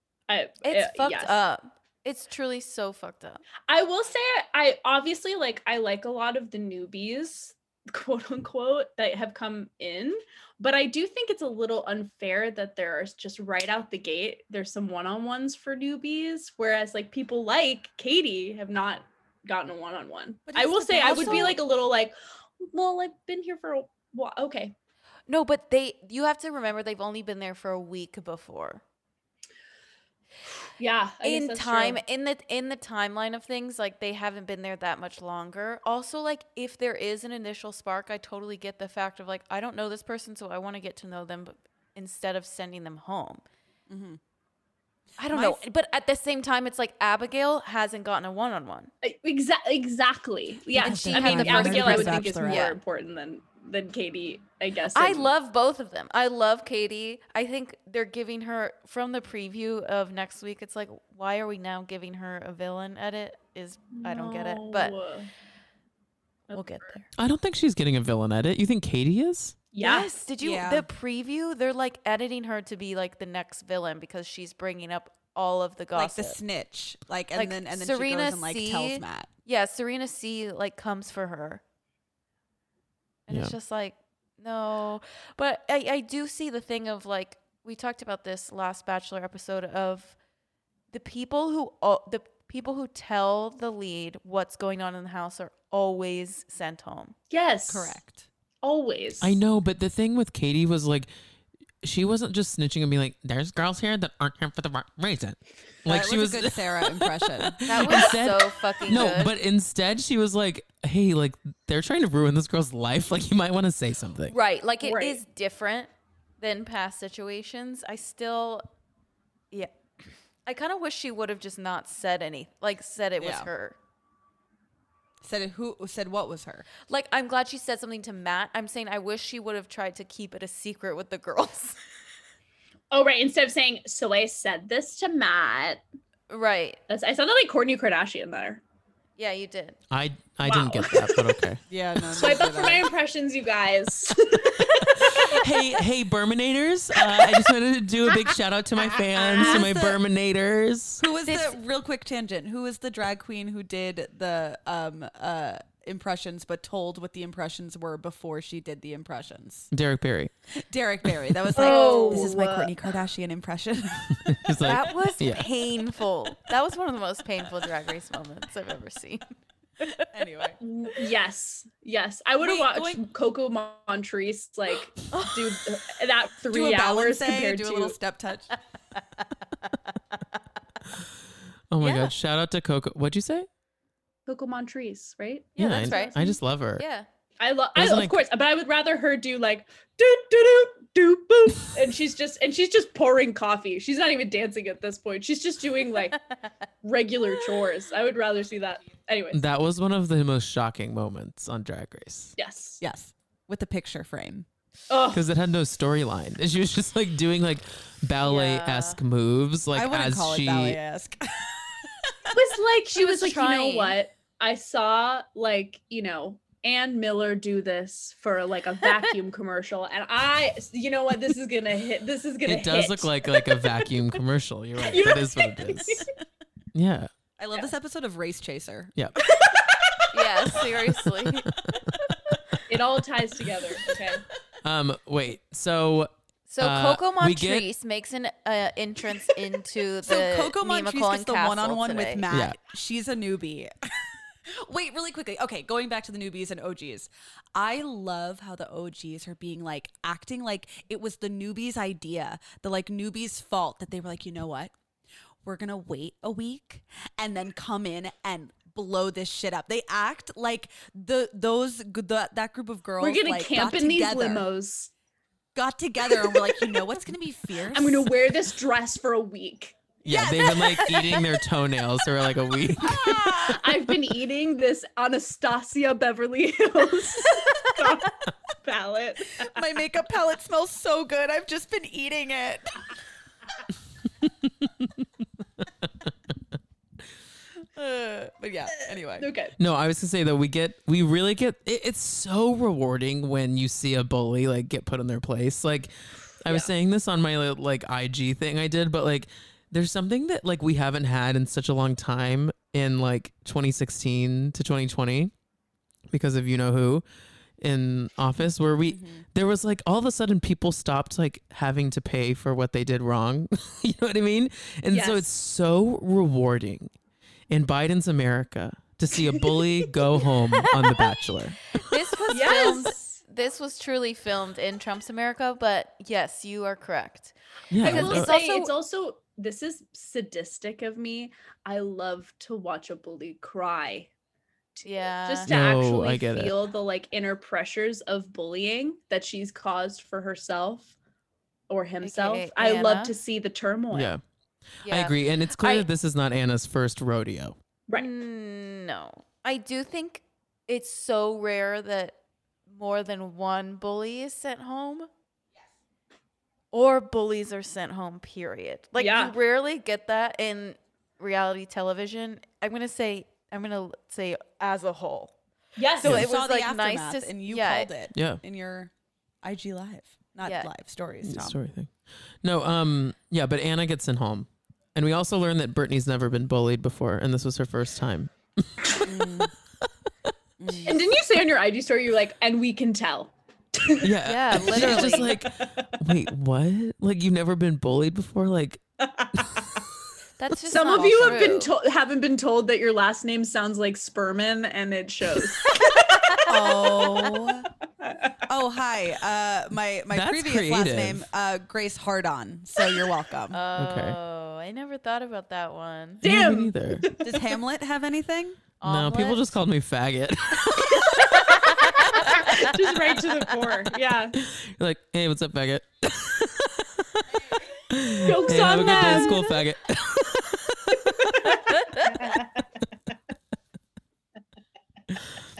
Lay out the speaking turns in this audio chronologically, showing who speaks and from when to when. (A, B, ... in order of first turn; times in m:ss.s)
0:00.3-0:01.4 A
0:00.6-0:03.4 B
0:03.7-0:24.7 A
0:20.5-0:21.6 C
0:21.0-0:21.6 B
0:25.3-0:28.8 B
0:30.8-0:32.0 A
0:31.2-0:43.4 B
0:43.9-0:44.2 C
0:45.2-0:48.9 B
0:45.3-0:45.6 C
0:49.0-0:55.3 A
0:50.7-0:52.8 B
0:50.8-0:52.7 C
0:54.9-1:04.9 B
1:03.9-1:05.3 A
1:06.5-1:06.8 A
1:06.5-1:07.0 B
1:07.2-1:09.6 D
1:09.7-1:10.1 A
1:09.8-1:16.4 B
1:10.4-1:10.9 C
1:15.9-1:19.3 C
1:17.3-1:21.6 B
1:23.3-1:30.2 B
1:30.9-1:37.1 B
1:37.3-1:38.0 A
1:37.7-1:38.3 C
1:38.6-1:39.4 A
1:39.2-1:41.1 D
1:41.8-1:54.3 D
1:45.8-1:47.7 C
1:47.6-1:49.3 B
1:54.3-1:58.6 B
1:54.8-1:55.2 A
2:00.4-2:03.8 B
2:03.2-2:03.5 C
2:05.2-2:06.6 C
2:06.9-2:11.8 B
2:12.9-2:15.8 A
2:16.3-2:16.8 B
2:16.9-2:18.6 A
2:19.2-2:19.8 B
2:19.9-2:21.6 D
2:20.4-2:21.3 A
2:21.7-2:22.8 C
2:22.1-2:25.4 A
2:24.6-2:31.0 D
2:29.2-2:30.0 C
2:29.2-2:29.6 A
2:31.0-2:39.7 C
2:31.2-2:31.6 B
2:39.7-2:40.3 D
2:40.5-2:44.6 C
2:41.5-2:42.7 A
2:41.6-2:42.3 B
2:44.2-2:45.5 D
2:44.6-2:49.2 B
2:49.8-2:50.1 B
2:50.1-2:50.6 C
2:50.6-2:57.9 A
2:52.4-2:53.0 C
2:55.1-2:55.4 B
2:56.5-2:58.5 C
3:01.7-3:03.5 D
3:01.8-3:02.1 B
3:04.3-3:06.2 A
3:05.6-3:06.8 D
3:05.6-3:07.0 B
3:07.4-3:16.2 A
3:07.8-3:08.2 D
3:16.8-3:19.4 A
3:19.3-3:22.3 D
3:22.4-3:22.8 A
3:22.8-3:24.4 C
3:24.9-3:25.2 A
3:25.1-3:30.8 D
3:28.2-3:29.0 B
3:29.7-3:32.4 C
3:32.3-3:43.9 A
3:32.9-3:34.0 B
3:42.4-3:46.1 D
3:44.8-3:46.1 A
3:46.7-3:47.1 D
3:47.4-3:48.9 C
3:49.3-3:50.1 A
3:50.1-3:51.5 B
3:52.7-3:54.2 A
3:54.6-3:57.7 D
3:56.5-4:02.2 B
4:00.0-4:14.7 C
4:02.3-4:02.6 D
4:15.4-4:24.4 C
4:23.0-4:24.9 A
4:25.5-4:28.1 C
4:26.2-4:26.8 A
4:27.7-4:29.8 A
4:30.0-4:33.6 D
4:30.1-4:31.0 C
4:32.8-4:33.7 C
4:33.4-4:39.5 A
4:39.4-4:42.8 C
4:47.7-4:49.3 C
4:49.2-4:49.5 A
4:49.6-5:05.3 D
5:06.1-5:07.0 D
5:07.6-5:16.9 D
5:08.9-5:09.2 C
5:14.9-5:15.2 A
5:17.5-5:21.9 D
5:21.8-5:28.7 B
5:22.3-5:23.2 A
5:27.7-5:28.3 D
5:27.8-5:34.1 A
5:34.7-5:40.9 A
5:34.8-5:35.5 B
5:35.4-5:36.6 D
5:41.7-5:44.1 A
5:42.0-5:43.1 B
5:43.9-5:44.2 D
5:44.8-5:45.9 B
5:44.8-5:47.6 D
5:47.9-5:52.1 B
5:52.7-5:55.1 B
5:56.7-6:05.3 B
5:59.0-5:59.3 A
6:05.8-6:06.3 A
6:06.0-6:07.9 B
6:06.0-6:08.9 C
6:08.1-6:08.4 D
6:09.4-6:11.6 C
6:10.4-6:10.7 B
6:11.2-6:11.9 D
6:12.4-6:19.0 D
6:19.0-6:19.5 C
6:20.6-6:21.1 C
6:20.8-6:25.8 A
6:24.0-6:28.8 D
6:24.2-6:25.3 B
6:29.2-6:29.8 A
6:30.4-6:31.7 B
6:30.7-6:37.2 A
6:36.5-6:37.7 C
6:38.0-6:38.3 A
6:38.5-6:43.6 C
6:40.1-6:41.2 D
6:43.5-6:46.2 B
6:43.8-6:44.2 D
6:46.2-6:47.5 A
6:46.2-6:47.1 D
6:47.2-6:48.6 C
6:48.8-6:49.6 B
6:48.8-6:51.2 D
6:51.2-6:52.8 B
6:51.6-6:54.4 A
6:54.4-6:57.2 D
6:57.9-7:01.6 D
6:58.2-6:59.6 A
7:01.2-7:02.6 A